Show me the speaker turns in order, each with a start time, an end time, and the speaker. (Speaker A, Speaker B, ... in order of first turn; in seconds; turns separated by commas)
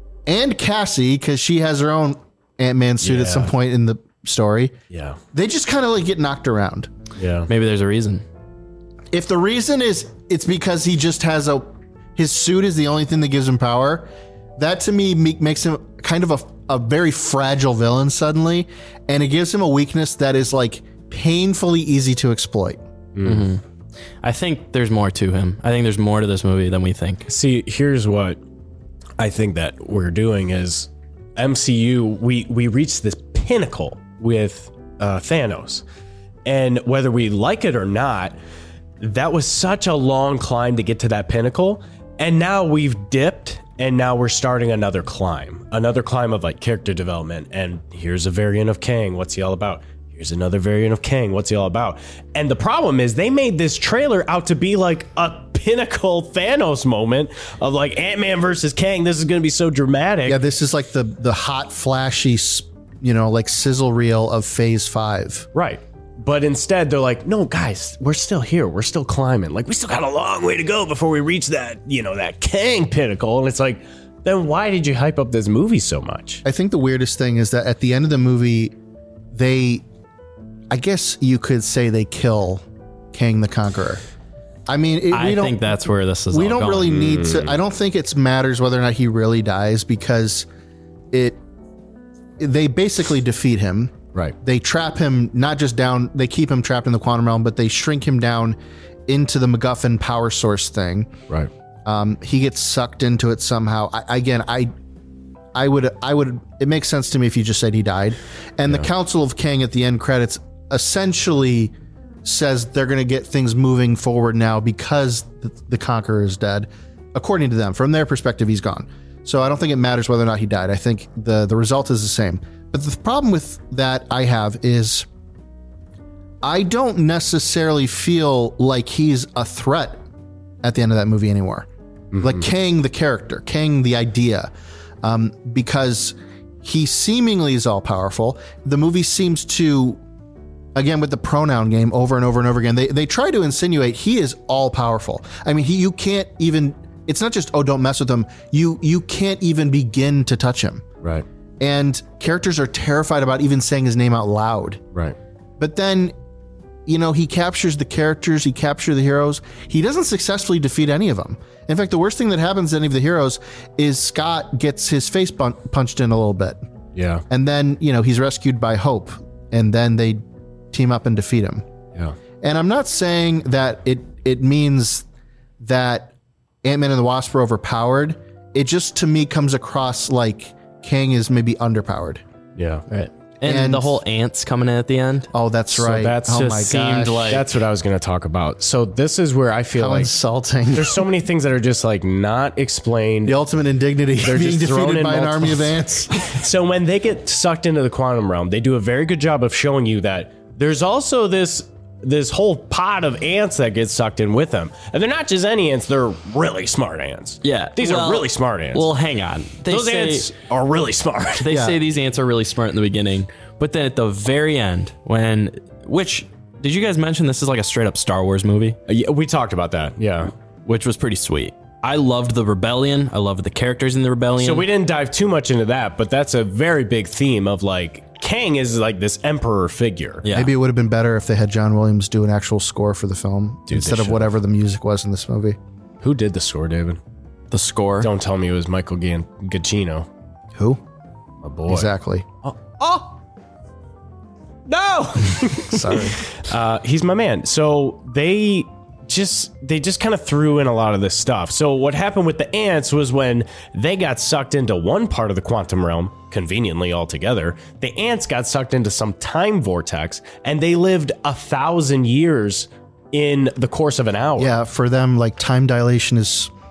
Speaker A: 0.2-4.7, Speaker B: 3.0-3.5, Speaker B: 4.9-5.2, Speaker A: 5.3-6.9, Speaker B: 7.2-7.5, Speaker C: 7.5-8.2, Speaker A: 9.1-22.8, Speaker B: 23.1-23.5, Speaker C: 23.2-23.6, Speaker C: 24.2-27.3, Speaker B: 27.3-28.4, Speaker B: 29.2-35.8, Speaker B: 36.4-38.4, Speaker B: 39.0-60.4, Speaker A: 60.2-65.5, Speaker B: 65.5-76.4, Speaker A: 76.4-78.7, Speaker A: 79.3-79.8, Speaker A: 80.7-84.0, Speaker A: 84.7-85.7, Speaker C: 85.1-87.1, Speaker A: 86.3-90.5, Speaker B: 86.9-87.5, Speaker A: 91.1-91.4, Speaker A: 92.4-101.1, Speaker A: 101.8-104.7, Speaker A: 105.5-111.7, Speaker A: 112.2-125.1, Speaker A: 126.4-130.0, Speaker A: 130.6-131.7, Speaker B: 132.1-132.4, Speaker A: 132.2-134.5, Speaker A: 135.0-140.0, Speaker A: 140.7-150.8, Speaker A: 151.6-154.8, Speaker A: 155.6-156.1, Speaker A: 156.8-166.6, Speaker B: 166.9-167.2, Speaker A: 167.3-171.6, Speaker A: 172.4-175.0, Speaker A: 175.6-176.1, Speaker A: 176.6-182.2, Speaker B: 182.6-182.8, Speaker C: 182.9-185.3, Speaker A: 183.4-184.0, Speaker A: 185.3-187.3, Speaker B: 185.8-186.7, Speaker C: 186.3-187.5, Speaker B: 187.2-190.1, Speaker A: 189.8-191.1, Speaker B: 190.7-193.3, Speaker A: 193.2-196.1, Speaker B: 194.2-208.9, Speaker C: 207.4-210.3, Speaker B: 209.7-211.5, Speaker C: 211.4-218.8, Speaker A: 211.5-211.8, Speaker B: 218.9-220.3, Speaker C: 220.6-224.7, Speaker B: 224.4-230.2, Speaker C: 230.2-230.5, Speaker A: 230.3-235.6, Speaker B: 233.7-234.3, Speaker B: 236.0-237.0, Speaker C: 237.5-238.1, Speaker B: 238.0-240.1, Speaker A: 240.6-240.8, Speaker B: 241.4-241.9, Speaker A: 241.7-242.2, Speaker B: 242.4-243.2, Speaker B: 244.7-264.5, Speaker A: 245.6-246.2, Speaker A: 264.4-266.5